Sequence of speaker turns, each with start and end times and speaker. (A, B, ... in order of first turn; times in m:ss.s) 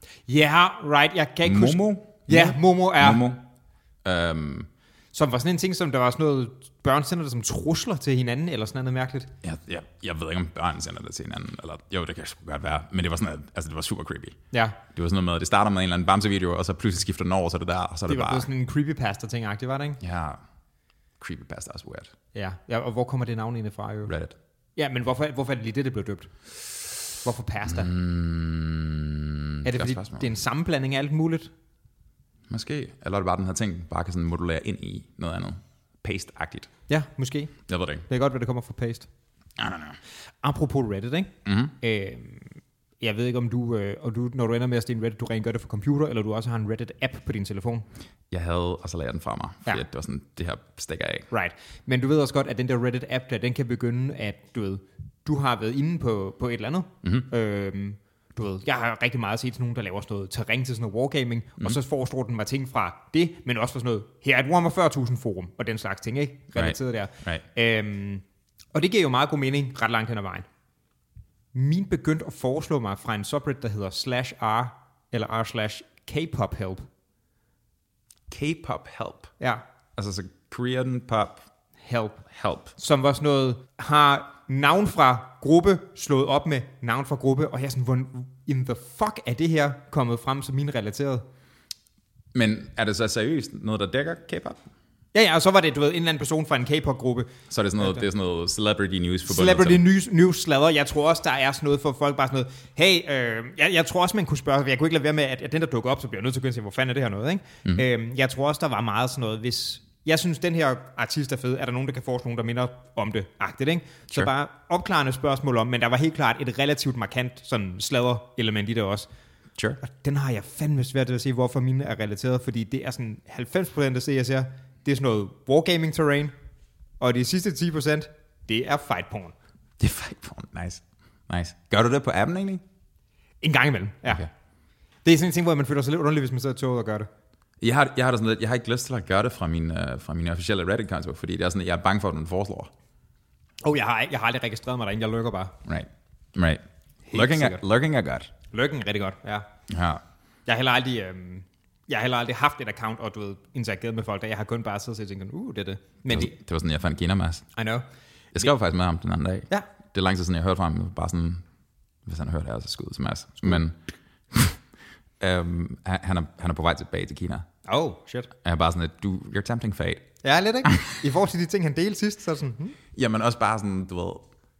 0:00.3-0:03.3 A
0:01.4-0:03.4 B
0:04.0-0:04.7 B
0:05.1-0:09.3 A
0:09.4-0:18.5 B
0:14.5-0:14.8 A
0:18.1-0:20.0 A
0:20.0-0:20.4 B
0:21.2-0:22.1 B
0:22.3-0:24.1 A
0:24.1-0:24.4 B
0:24.8-0:26.3 A
0:27.2-0:27.9 A
0:27.7-0:30.3 B
0:29.6-0:31.5 A
0:32.5-0:36.7 B
0:36.9-0:37.5 A
0:37.7-0:38.1 B
0:38.1-0:39.1 A
0:39.6-0:40.0 B
0:40.4-0:47.9 A
0:41.4-0:41.8 B
0:48.3-0:51.3 B
0:51.3-1:10.5 A
0:57.0-0:57.3 B
1:06.6-1:07.4 B
1:11.5-1:16.9 A
1:18.3-1:19.3 B
1:20.0-1:21.4 B
1:21.8-1:22.2 A
1:22.3-1:22.8 B
1:22.8-1:31.2 A
1:32.3-1:34.6 B
1:35.1-1:38.0 A
1:37.5-1:39.8 B
1:39.3-1:59.1 A
1:59.8-2:06.3 A
2:07.0-2:09.4 A
2:09.8-2:12.6 B
2:13.4-2:14.3 A
2:15.0-2:17.1 A
2:17.6-2:22.7 B
2:23.6-2:25.6 A
2:25.7-2:28.3 B
2:27.1-2:27.6 A
2:28.5-2:29.5 A
2:29.7-2:30.0 B
2:30.5-2:36.3 A
2:36.1-2:37.5 B
2:37.6-2:37.8 A
2:38.3-2:41.4 B
2:42.1-2:43.8 B
2:44.3-2:44.6 B
2:45.2-2:47.5 B
2:47.7-2:48.3 A
2:48.4-2:50.1 B
2:50.2-2:52.8 A
2:53.0-2:54.3 B